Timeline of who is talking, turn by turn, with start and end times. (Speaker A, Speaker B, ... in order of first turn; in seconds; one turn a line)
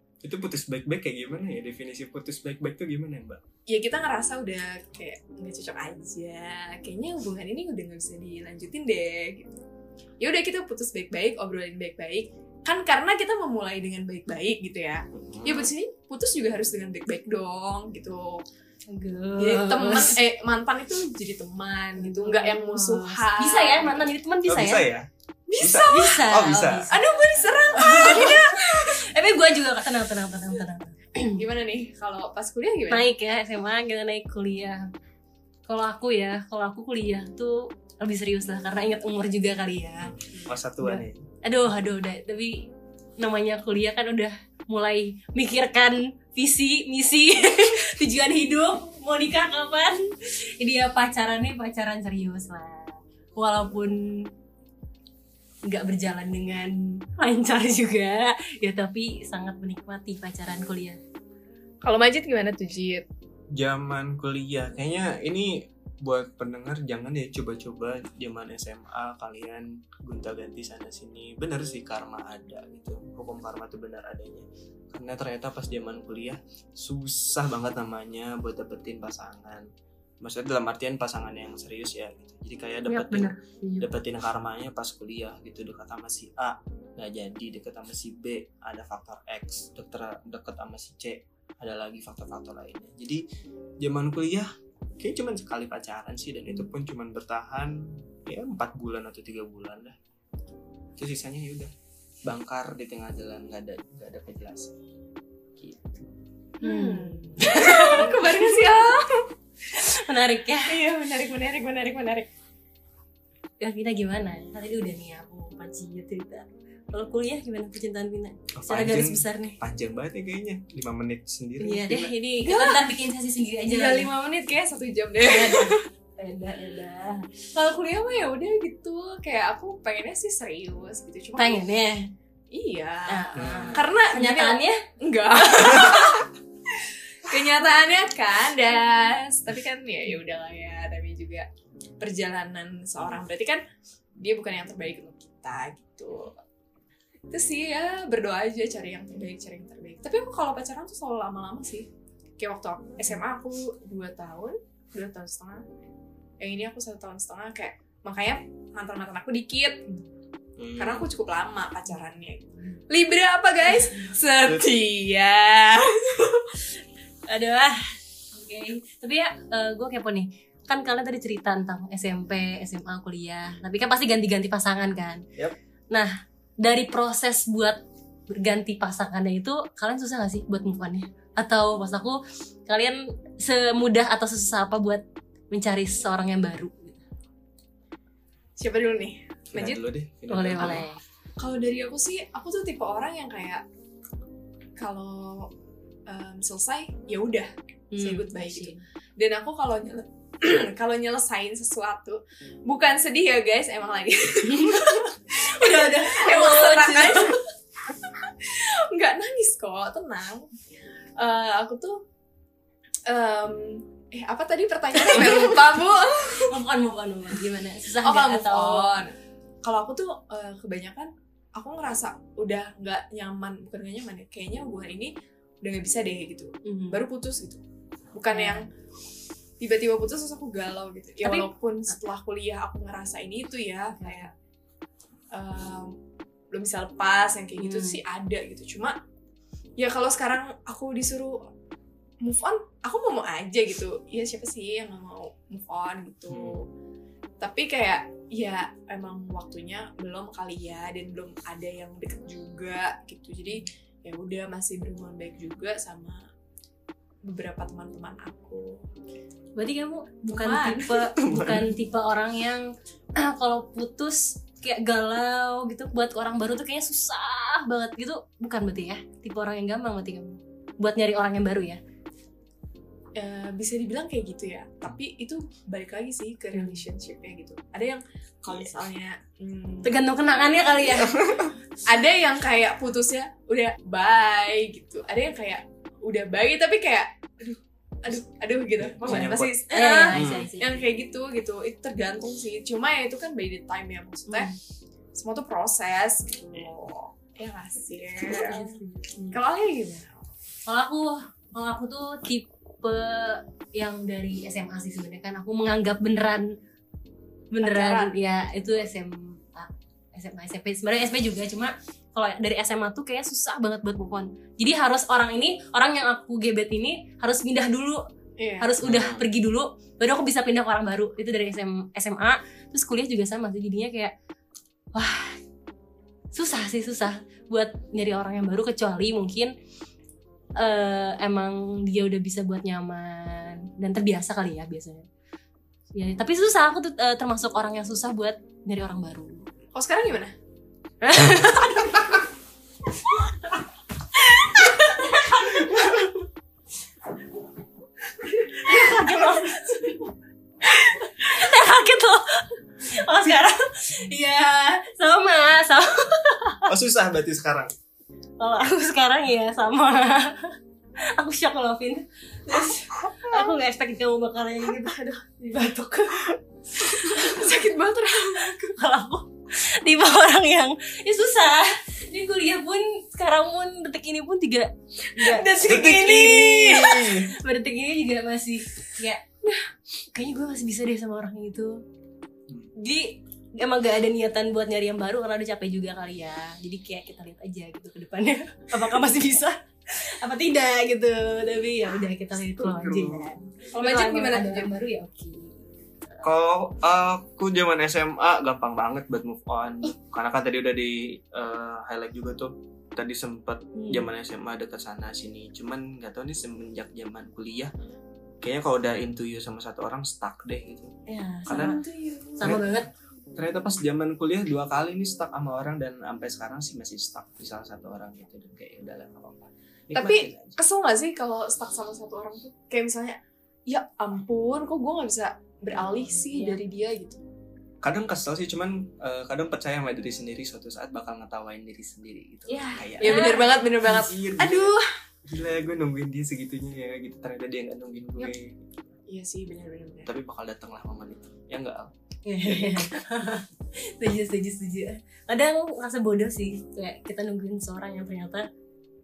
Speaker A: 0.2-3.4
Speaker B: 3.7-9.6
Speaker B: 10.2-18.4
Speaker A: 15.1-15.7
Speaker C: 18.9-20.2
Speaker B: 19.4-24.1
Speaker C: 22.0-24.9
Speaker A: 24.5-25.1
Speaker B: 25.5-26.2
Speaker A: 25.6-26.9
Speaker C: 25.8-27.1
Speaker B: 26.9-29.0
Speaker C: 27.8-31.4
Speaker B: 31.4-33.1
Speaker C: 32.9-34.9
Speaker C: 35.7-40.2
Speaker A: 40.0-41.2
Speaker B: 40.3-40.6
Speaker C: 40.8-54.3
Speaker C: 55.7-61.0
Speaker B: 61.8-63.1
Speaker A: 63.5-79.7
Speaker A: 80.2-93.2
Speaker C: 82.9-83.9
Speaker A: 93.8-100.0
Speaker A: 101.0-101.7
Speaker A: 102.3-104.8
Speaker A: 105.6-106.1
Speaker B: 106.6-109.3
Speaker C: 106.6-108.6
Speaker C: 109.7-110.8
Speaker B: 110.7-112.3
Speaker C: 113.6-119.6
Speaker A: 118.5-122.1
Speaker C: 121.6-124.1
Speaker B: 122.4-122.9
Speaker B: 123.7-125.8
Speaker C: 125.2-127.3
Speaker B: 127.5-131.6
Speaker C: 131.4-132.1
Speaker B: 132.5-141.5
Speaker C: 133.1-134.8
Speaker A: 133.4-133.9
Speaker C: 135.7-136.1
Speaker B: 142.0-143.6
Speaker B: 144.2-146.4
Speaker B: 147.3-151.9
Speaker B: 152.4-155.6
Speaker B: 156.4-159.9
Speaker A: 160.6-161.1
Speaker B: 160.8-166.6
Speaker A: 164.4-164.7
Speaker C: 167.3-175.2
Speaker C: 175.9-187.0
Speaker B: 188.6-189.8
Speaker A: 189.5-190.8
Speaker C: 190.3-191.0
Speaker B: 191.4-193.6
Speaker B: 194.8-195.5
Speaker B: 196.1-207.4
Speaker C: 197.9-198.8
Speaker C: 204.4-207.4
Speaker B: 208.2-210.5
Speaker B: 211.2-212.0
Speaker B: 213.1-216.6
Speaker C: 215.0-215.6
Speaker C: 216.3-218.9
Speaker B: 218.0-227.6
Speaker C: 226.7-227.0
Speaker B: 228.2-228.7
Speaker C: 228.3-228.7
Speaker B: 229.6-234.3
Speaker C: 231.2-231.5
Speaker C: 233.9-234.3
Speaker B: 235.3-236.0
Speaker B: 236.5-239.0
Speaker C: 237.6-238.0
Speaker B: 239.8-241.5
Speaker B: 242.2-246.7
Speaker A: 246.3-246.6
Speaker B: 247.4-256.3
Speaker B: 257.2-258.9
Speaker C: 259.6-271.8
Speaker B: 260.3-261.1
Speaker A: 261.2-261.8
Speaker B: 273.1-280.0
Speaker C: 276.5-276.9
Speaker A: 278.5-278.7
Speaker C: 279.8-281.3
Speaker A: 281.0-281.6
Speaker B: 281.9-294.5
Speaker A: 288.8-289.6
Speaker C: 289.1-290.8
Speaker A: 290.1-290.5
Speaker C: 294.3-294.6
Speaker B: 295.1-298.8
Speaker C: 298.2-299.4
Speaker B: 299.3-300.1
Speaker C: 300.7-306.6
Speaker C: 307.5-318.1
Speaker B: 307.6-308.1
Speaker B: 318.4-318.7
Speaker C: 318.6-324.1
Speaker A: 318.8-319.3
Speaker C: 324.9-325.4
Speaker C: 326.3-329.5
Speaker C: 330.6-335.1
Speaker C: 335.9-339.5
Speaker B: 339.7-340.3
Speaker C: 341.0-342.1
Speaker C: 344.2-346.1
Speaker C: 348.4-350.0
Speaker C: 350.7-356.7
Speaker A: 356.7-357.7
Speaker C: 358.4-360.6
Speaker C: 361.1-367.5
Speaker B: 366.8-368.7
Speaker C: 368.4-379.2
Speaker B: 375.2-375.7
Speaker A: 375.6-377.3
Speaker C: 380.1-381.8
Speaker C: 382.8-396.2
Speaker A: 392.4-393.3
Speaker B: 393.7-394.7
Speaker A: 396.2-407.7
Speaker C: 403.8-404.0
Speaker A: 408.4-410.9
Speaker C: 411.1-412.9
Speaker A: 411.5-411.8
Speaker B: 411.6-412.6
Speaker A: 412.4-412.8
Speaker A: 413.4-420.6
Speaker B: 419.9-427.2
Speaker C: 425.8-426.6
Speaker A: 427.8-434.8
Speaker C: 432.5-433.6
Speaker B: 433.0-434.9
Speaker A: 435.3-438.7
Speaker B: 439.1-440.1
Speaker A: 440.1-441.9
Speaker C: 442.3-448.5